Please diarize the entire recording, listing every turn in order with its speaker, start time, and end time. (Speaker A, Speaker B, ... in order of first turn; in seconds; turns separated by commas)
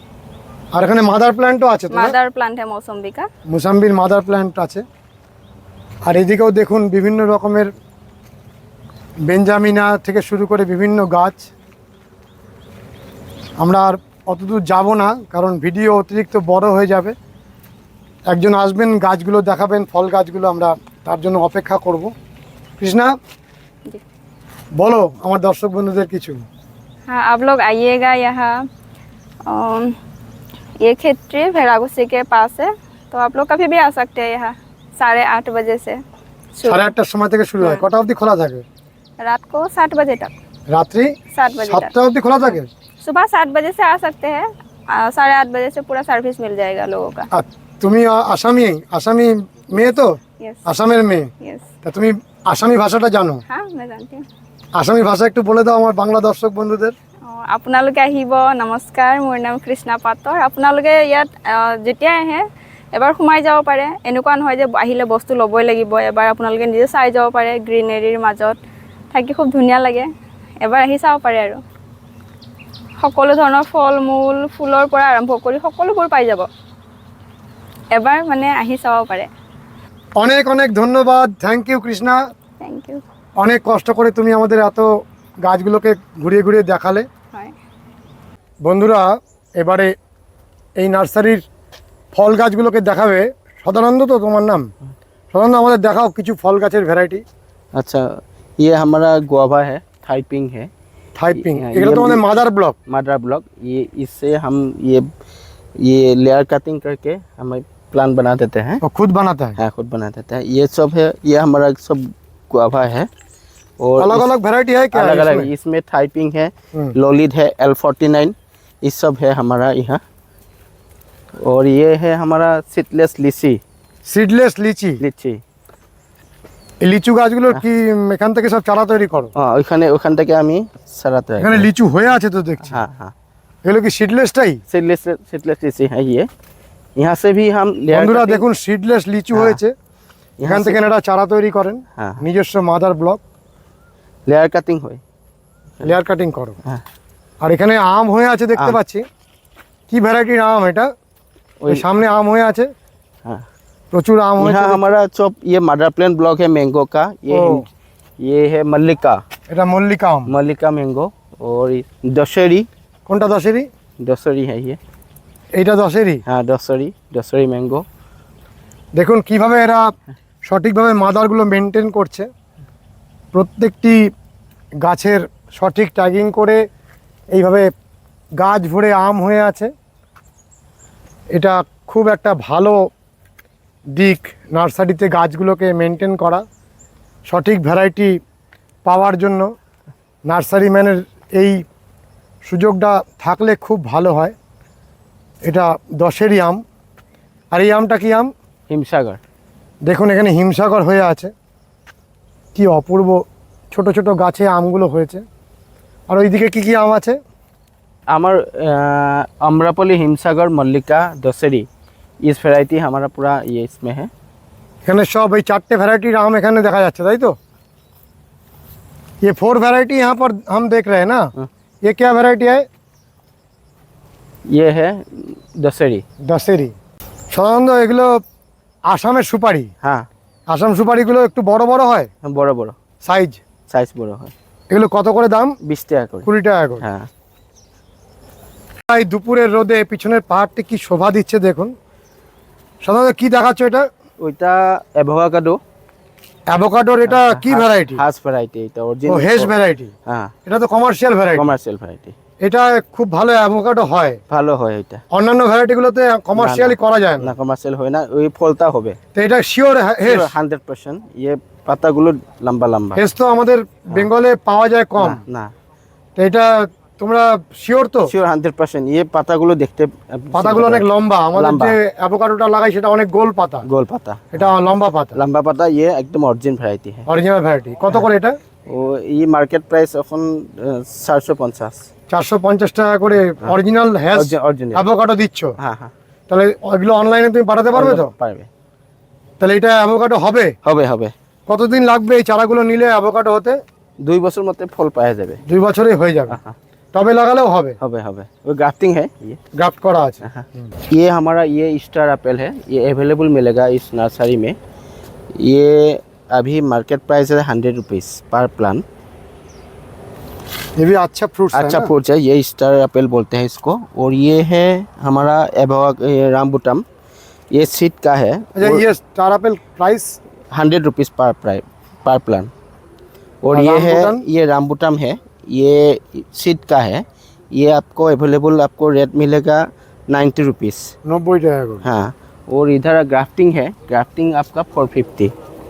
Speaker A: 0.8-2.1, Speaker B: 1.9-3.3, Speaker A: 3.5-4.8, Speaker A: 6.1-7.7, Speaker A: 9.2-11.5, Speaker A: 13.6-17.1, Speaker A: 18.3-22.1, Speaker A: 22.8-23.1, Speaker A: 24.8-26.4, Speaker B: 27.1-28.6, Speaker B: 29.5-30.0, Speaker B: 30.8-36.0, Speaker B: 36.6-36.9, Speaker A: 36.6-38.6, Speaker B: 39.2-40.3, Speaker A: 40.7-42.7, Speaker B: 41.3-41.9, Speaker B: 43.0-47.3, Speaker A: 47.3-51.3, Speaker B: 51.4-51.7, Speaker A: 51.8-53.4, Speaker B: 53.5-54.2, Speaker A: 54.8-57.0, Speaker B: 57.2-68.6, Speaker B: 69.1-70.1, Speaker B: 70.6-71.6, Speaker B: 73.0-76.5, Speaker B: 77.9-79.3, Speaker A: 80.2-82.2, Speaker B: 82.6-83.0, Speaker A: 83.4-84.9, Speaker A: 85.4-87.1, Speaker A: 88.7-89.9, Speaker A: 90.8-91.5, Speaker A: 92.1-94.7, Speaker A: 95.3-97.2, Speaker C: 97.7-100.7, Speaker A: 101.2-102.8, Speaker C: 101.4-102.2, Speaker C: 102.9-105.1, Speaker C: 105.8-108.8, Speaker A: 108.8-109.6, Speaker C: 109.6-113.1, Speaker C: 113.8-114.3, Speaker A: 114.0-115.5, Speaker C: 114.9-120.0, Speaker C: 121.4-123.6, Speaker A: 124.1-125.0, Speaker C: 125.0-125.4, Speaker A: 126.8-129.3, Speaker C: 129.3-131.7, Speaker A: 131.4-132.8, Speaker C: 132.7-133.1, Speaker A: 133.7-134.6, Speaker C: 134.7-136.3, Speaker C: 137.0-138.4, Speaker A: 137.9-139.8, Speaker C: 139.3-139.6, Speaker C: 140.4-140.8, Speaker A: 140.4-143.2, Speaker C: 144.3-145.0, Speaker A: 145.8-146.6, Speaker A: 147.4-149.1, Speaker A: 149.9-150.9, Speaker C: 151.6-151.9, Speaker A: 151.7-152.7, Speaker A: 153.9-154.9, Speaker C: 154.4-157.7, Speaker A: 157.3-157.7, Speaker C: 158.2-159.2, Speaker A: 159.5-160.3, Speaker C: 160.3-162.7, Speaker A: 163.1-163.7, Speaker C: 164.0-164.8, Speaker A: 165.6-166.2, Speaker C: 166.3-167.8, Speaker A: 169.0-169.9, Speaker A: 170.5-172.3, Speaker A: 173.3-174.1, Speaker A: 174.8-176.6, Speaker A: 177.3-177.7, Speaker A: 178.4-179.7, Speaker A: 181.3-182.9, Speaker A: 183.9-186.4, Speaker A: 187.3-188.2, Speaker A: 188.9-189.5, Speaker A: 190.3-191.6, Speaker A: 192.5-194.3, Speaker A: 195.4-196.6, Speaker A: 197.5-198.3, Speaker C: 198.7-199.2, Speaker A: 199.9-201.3, Speaker A: 202.6-205.2, Speaker A: 206.1-207.2, Speaker C: 208.1-211.7, Speaker C: 212.2-214.1, Speaker A: 214.9-217.4, Speaker A: 219.2-221.3, Speaker A: 221.8-222.7, Speaker C: 224.5-226.0, Speaker A: 226.3-226.8, Speaker A: 227.3-228.2, Speaker A: 228.9-229.7, Speaker C: 229.8-230.1, Speaker A: 230.5-232.1, Speaker C: 232.2-232.8, Speaker A: 233.0-233.4, Speaker C: 233.7-234.3, Speaker A: 234.7-235.6, Speaker C: 235.7-236.3, Speaker A: 236.2-236.8, Speaker C: 236.8-237.1, Speaker A: 238.9-241.7, Speaker A: 242.8-243.9, Speaker C: 244.2-245.6, Speaker A: 246.5-248.0, Speaker C: 247.1-249.5, Speaker A: 249.1-249.9, Speaker C: 250.1-250.3, Speaker A: 250.5-251.5, Speaker C: 251.3-252.2, Speaker A: 252.4-254.2, Speaker C: 254.3-255.0, Speaker A: 255.1-257.3, Speaker C: 256.4-259.0, Speaker A: 259.1-260.3, Speaker C: 260.0-263.0, Speaker A: 263.0-265.2, Speaker C: 265.0-265.5, Speaker A: 266.2-268.1, Speaker C: 268.1-271.8, Speaker A: 270.3-273.7, Speaker C: 273.7-274.5, Speaker A: 274.3-275.2, Speaker C: 275.1-277.1, Speaker A: 277.1-278.4, Speaker C: 278.7-281.9, Speaker A: 282.1-285.6, Speaker C: 284.1-284.9, Speaker C: 285.6-285.9, Speaker A: 286.3-288.1, Speaker C: 287.8-288.5, Speaker A: 289.4-290.5, Speaker C: 290.6-291.1, Speaker A: 291.5-293.6, Speaker C: 294.0-295.4, Speaker A: 295.5-296.4, Speaker C: 296.3-296.6, Speaker A: 296.9-297.8, Speaker C: 297.8-299.4, Speaker A: 299.6-300.3, Speaker C: 300.2-304.6, Speaker C: 305.4-308.9, Speaker A: 310.8-311.9, Speaker C: 311.5-316.9, Speaker C: 317.5-318.9, Speaker A: 318.6-320.2, Speaker C: 320.5-322.5, Speaker C: 323.4-330.9, Speaker A: 323.5-324.2, Speaker A: 331.1-331.8, Speaker C: 331.8-335.3